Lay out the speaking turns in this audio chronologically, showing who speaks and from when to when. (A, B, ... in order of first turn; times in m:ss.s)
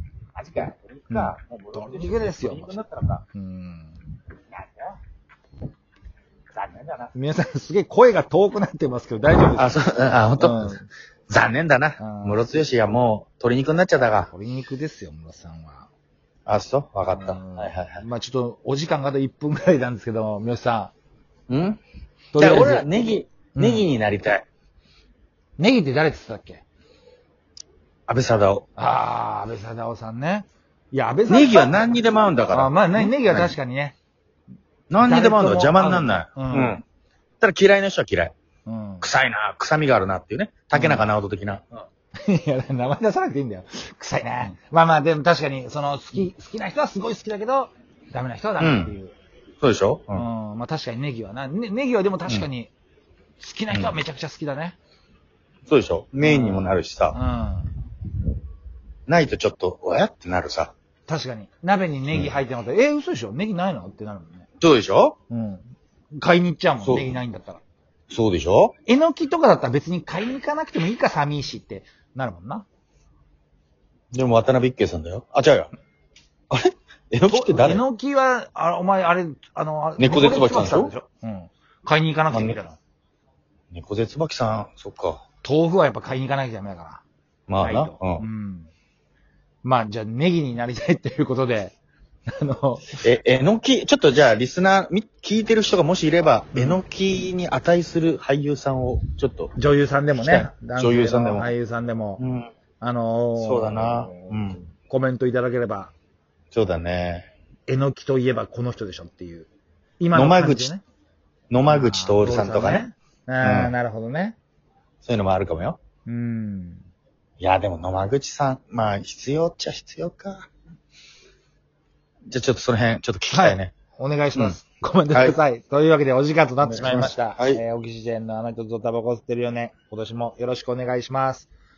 0:00.3-0:03.2 A
0:01.1-0:02.8 B
0:03.3-0:04.0 B
0:04.5-0:05.0 A
0:06.5-0:07.1 A
0:07.1-0:09.8 B
0:09.5-0:10.8 A
0:10.4-0:10.9 B
0:11.3-0:14.3 A
0:12.0-0:12.4 B
0:14.3-0:15.9 B
0:16.4-0:18.0 A
0:17.0-0:20.9 B
0:21.5-0:21.8 A
0:22.3-0:22.9 B
0:22.4-0:24.4 A
0:23.5-0:23.8 B
0:25.6-0:26.6 B
0:28.1-0:28.6 A
0:28.8-0:31.8 B
0:31.3-0:33.6 A
0:32.5-0:34.0 B
0:34.9-0:36.8 A
0:35.0-0:36.8 B
0:37.4-0:38.3 A
0:38.6-0:39.1 B
0:39.0-0:41.6 A
0:40.7-0:41.1 B
0:42.2-0:49.1 B
0:48.6-0:48.9 A
0:49.6-0:50.2 A
0:50.1-0:52.7 B
0:53.4-0:54.8 B
0:53.7-0:54.0 A
0:55.7-0:57.2 A
0:56.2-0:57.7 B
0:59.1-1:00.7 A
1:01.1-1:04.4 B
1:02.1-1:02.4 A
1:04.6-1:05.2 A
1:05.3-1:07.6 B
1:06.8-1:07.2 A
1:08.1-1:08.7 A
1:08.8-1:12.6 B
1:14.1-1:15.7 A
1:16.5-1:17.8 A
1:17.3-1:22.8 B
1:20.0-1:20.9 A
1:22.3-1:22.6 A
1:23.7-1:25.2 A
1:25.4-1:27.0 B
1:27.5-1:28.2 A
1:27.6-1:28.7 B
1:29.6-1:31.7 B
1:32.3-1:33.0 B
1:33.0-1:39.5 A
1:36.5-1:36.8 B
1:39.6-1:42.2 B
1:40.2-1:41.5 A
1:42.2-1:42.5 A
1:42.8-1:45.9 B
1:43.4-1:44.6 A
1:46.5-1:47.3 A
1:47.7-1:49.5 B
1:50.0-1:50.8 B
1:50.1-1:50.7 A
1:51.5-1:52.8 A
1:51.7-1:54.4 B
1:53.4-1:53.7 A
1:55.0-1:55.8 A
1:56.0-1:56.8 B
1:57.4-2:00.5 A
2:02.3-2:03.7 A
2:03.3-2:11.5 B
2:05.1-2:05.4 A
2:06.6-2:07.6 A